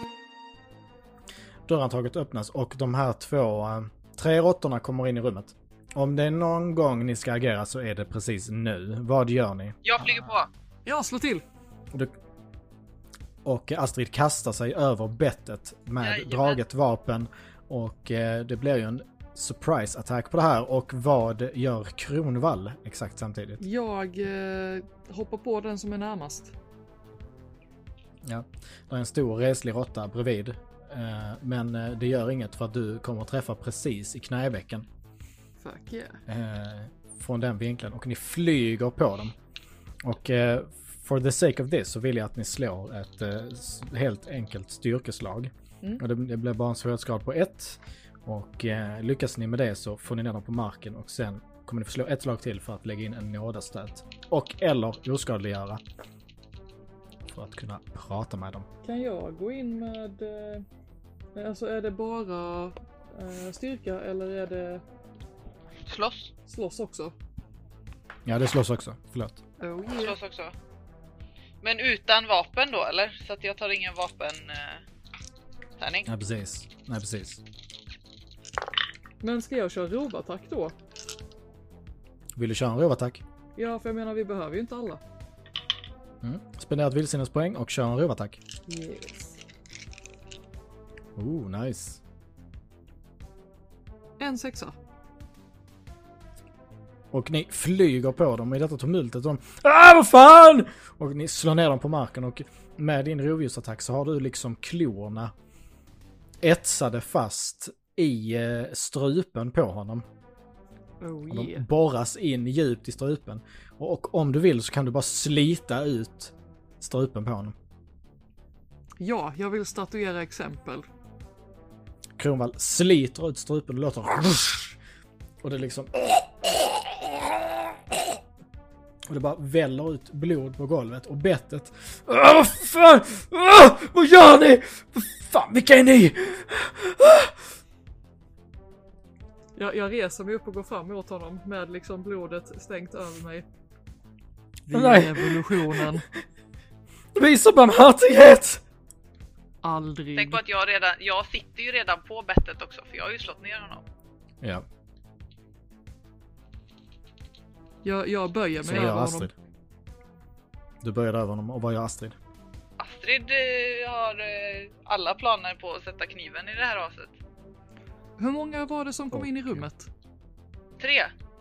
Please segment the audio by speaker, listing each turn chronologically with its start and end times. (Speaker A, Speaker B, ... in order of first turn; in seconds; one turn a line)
Speaker A: 1.7-10.3
Speaker B: 9.8-10.5
Speaker C: 10.8-11.4
Speaker A: 13.4-23.6
Speaker B: 16.0-16.6
Speaker C: 23.6-26.5
Speaker A: 28.2-34.9
Speaker C: 35.6-36.2
Speaker A: 36.3-39.4
Speaker A: 40.0-55.8
Speaker A: 57.3-58.7
Speaker C: 58.8-60.6
Speaker C: 61.3-64.8
Speaker B: 65.9-66.3
Speaker C: 66.5-67.2
Speaker A: 68.2-69.4
Speaker C: 69.6-70.2
Speaker B: 69.9-70.5
Speaker B: 71.6-74.8
Speaker B: 75.8-76.1
Speaker A: 76.1-77.4
Speaker C: 79.2-80.8
Speaker A: 82.3-83.2
Speaker C: 83.6-85.0
Speaker A: 86.2-88.4
Speaker C: 88.7-89.4
Speaker A: 91.2-92.0
Speaker C: 94.2-94.8
Speaker A: 97.1-105.3
Speaker A: 106.4-110.0
Speaker C: 111.0-111.7
Speaker A: 111.3-117.6
Speaker C: 119.0-120.9
Speaker A: 122.2-124.8
Speaker A: 125.4-128.2
Speaker A: 129.1-137.5
Speaker C: 139.6-143.5
Speaker C: 144.7-146.1
Speaker A: 144.7-146.1
Speaker A: 147.2-148.6
Speaker C: 149.6-150.4
Speaker B: 150.2-153.8
Speaker C: 157.8-159.3
Speaker A: 158.6-159.3
Speaker A: 160.8-162.2
Speaker B: 162.8-167.2
Speaker C: 168.2-169.9
Speaker A: 169.1-169.7
Speaker B: 170.8-171.1